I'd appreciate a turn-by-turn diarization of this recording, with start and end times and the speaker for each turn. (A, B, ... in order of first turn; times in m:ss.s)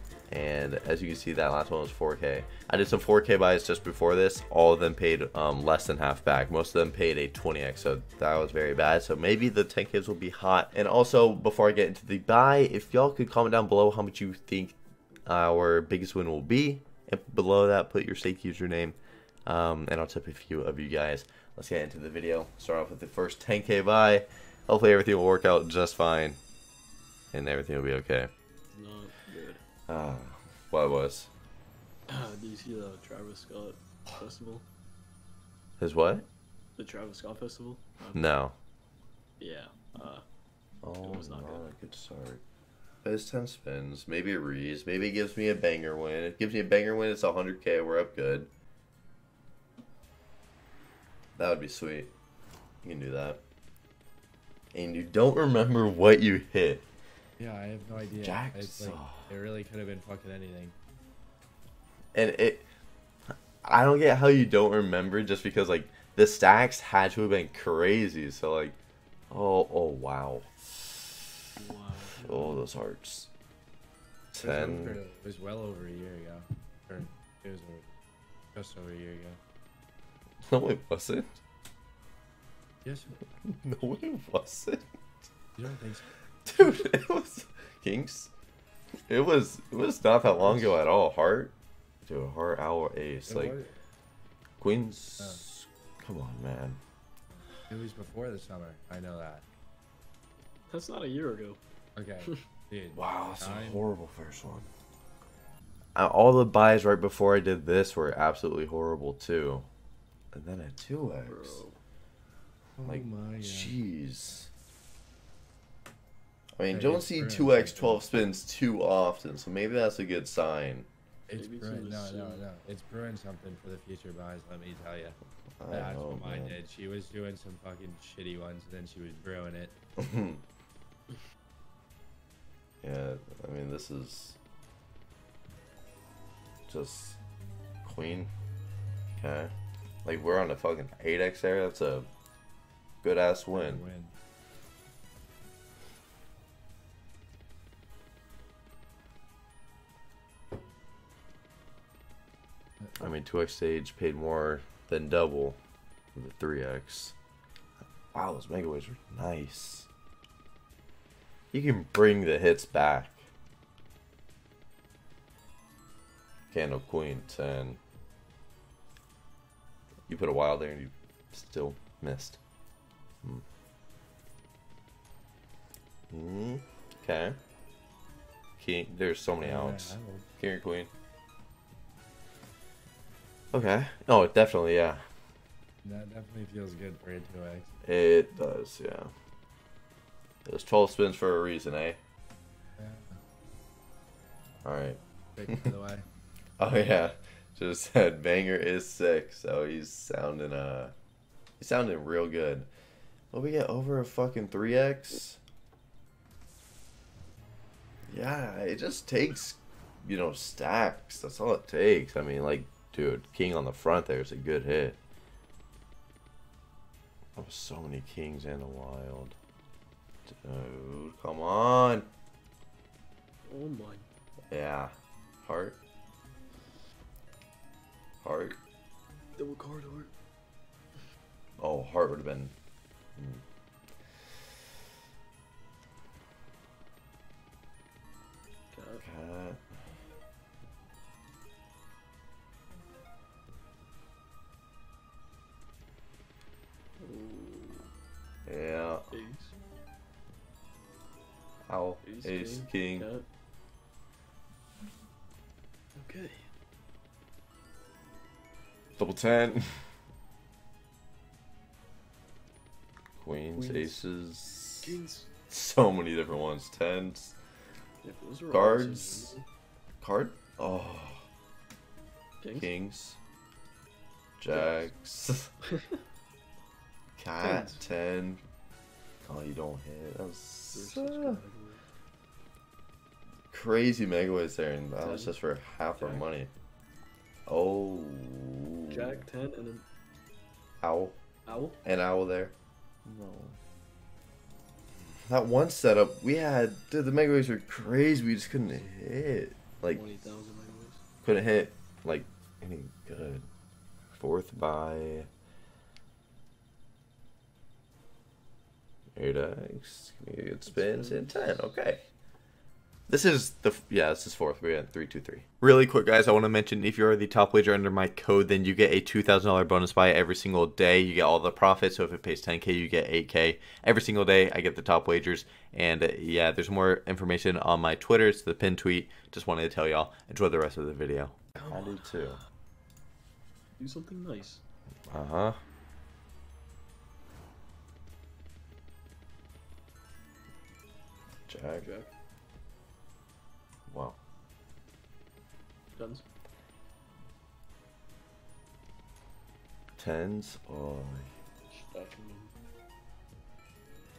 0:00.3-0:26.4 A
0:27.3-0:28.3 A
0:28.7-0:29.6 B
0:29.9-0:31.3 A
0:32.1-0:34.6 B
0:35.8-0:36.2 A
0:36.8-0:38.2 B
0:38.1-0:38.6 A
0:39.4-0:40.2 B
0:40.8-0:42.4 A
0:41.0-0:41.6 B
0:43.0-0:48.5 A
0:51.4-0:52.1 A
0:52.8-0:53.4 A
0:54.7-0:56.8 A
0:57.4-1:00.7 C
0:58.1-0:59.3 A
1:02.1-1:02.6 A
1:03.6-1:08.8 A
1:09.3-1:11.4 A
1:11.6-1:12.6 B
1:12.1-1:13.3 A
1:14.3-1:15.0 A
1:14.4-1:17.9 C
1:18.5-1:19.4 C
1:20.4-1:21.4 A
1:22.8-1:23.1 C
1:23.4-1:24.8 A
1:25.6-1:26.1 C
1:26.4-1:28.3 A
1:29.1-1:31.5 A
1:30.4-1:30.8 C
1:32.0-1:33.6 A
1:33.3-1:33.8 C
1:34.6-1:36.8 A
1:35.2-1:35.4 C
1:37.7-1:39.4 C
1:40.7-1:41.6 B
1:42.0-1:43.9 C
1:42.9-1:44.7 A
1:46.0-1:49.7 A
1:50.3-1:51.6 A
1:51.3-1:51.8 B
1:52.8-1:53.8 C
1:52.8-1:54.5 A
1:56.6-2:00.9 A
1:56.7-1:58.1 C
2:01.3-2:05.2 C
2:01.4-2:02.4 B
2:05.6-2:06.6 A
2:05.7-2:09.7 C
2:10.0-2:10.4 A
2:12.8-2:14.4 A
2:16.7-2:17.2 A
2:17.8-2:18.3 A
2:19.2-2:19.5 A
2:20.0-2:22.1 A
2:23.0-2:23.8 A
2:23.5-2:24.1 C
2:33.0-2:35.6 A
2:36.1-2:37.1 A
2:38.1-2:39.9 A
2:41.5-2:43.2 A
2:46.5-2:47.8 A
2:50.1-2:52.4 A
2:56.1-2:57.4 A
2:58.6-3:00.9 A
2:59.4-3:00.3 C
3:03.5-3:05.0 A
3:05.8-3:07.7 C
3:07.8-3:09.1 A
3:10.4-3:12.0 A
3:12.8-3:13.2 C
3:14.6-3:15.7 A
3:15.3-3:16.0 C
3:16.6-3:20.9 A
3:21.6-3:22.7 A
3:23.3-3:25.4 A
3:28.1-3:35.0 A
3:37.4-3:39.4 A
3:40.2-3:42.0 A
3:43.5-3:44.1 B
3:44.5-3:45.8 A
3:48.2-3:48.6 A
3:49.4-3:50.1 B
3:51.6-3:52.5 A
3:53.2-3:53.4 A
3:58.7-3:59.0 B
3:59.0-3:59.7 A
4:07.0-4:07.9 B
4:08.4-4:09.1 A
4:09.1-4:09.5 B
4:11.7-4:13.1 A
4:12.0-4:13.2 B
4:16.0-4:16.4 B
4:19.0-4:19.8 A
4:23.2-4:25.0 A
4:23.5-4:24.0 B
4:24.8-4:25.3 B
4:25.5-4:27.4 A
4:28.0-4:29.4 B
4:28.5-4:29.4 A
4:30.0-4:31.2 A
4:32.4-4:32.7 B
4:32.5-4:33.2 A
4:34.4-4:35.5 A
4:34.5-4:34.9 B
4:37.2-4:38.4 A
4:37.4-4:37.8 B
4:39.2-4:41.4 A
4:40.7-4:41.8 B
4:43.5-4:46.5 A
4:45.0-4:45.3 B
4:45.9-4:46.3 B
4:47.5-4:49.2 A
4:48.9-4:49.8 B
4:50.8-4:51.2 A
4:51.4-4:51.8 B
4:51.8-4:52.5 A
4:53.0-4:53.6 A
4:55.3-5:00.1 A
4:59.9-5:01.0 B
5:01.2-5:03.4 A
5:04.2-5:05.3 A
5:09.2-5:12.0 A
5:10.6-5:11.6 B
5:13.1-5:32.4 A
5:33.8-5:34.6 B
5:35.1-5:35.6 A
5:41.5-5:41.9 A
5:41.7-5:42.1 B
5:43.9-5:44.2 A
5:45.9-5:46.2 B
5:50.0-5:51.3 A
5:51.7-5:52.5 B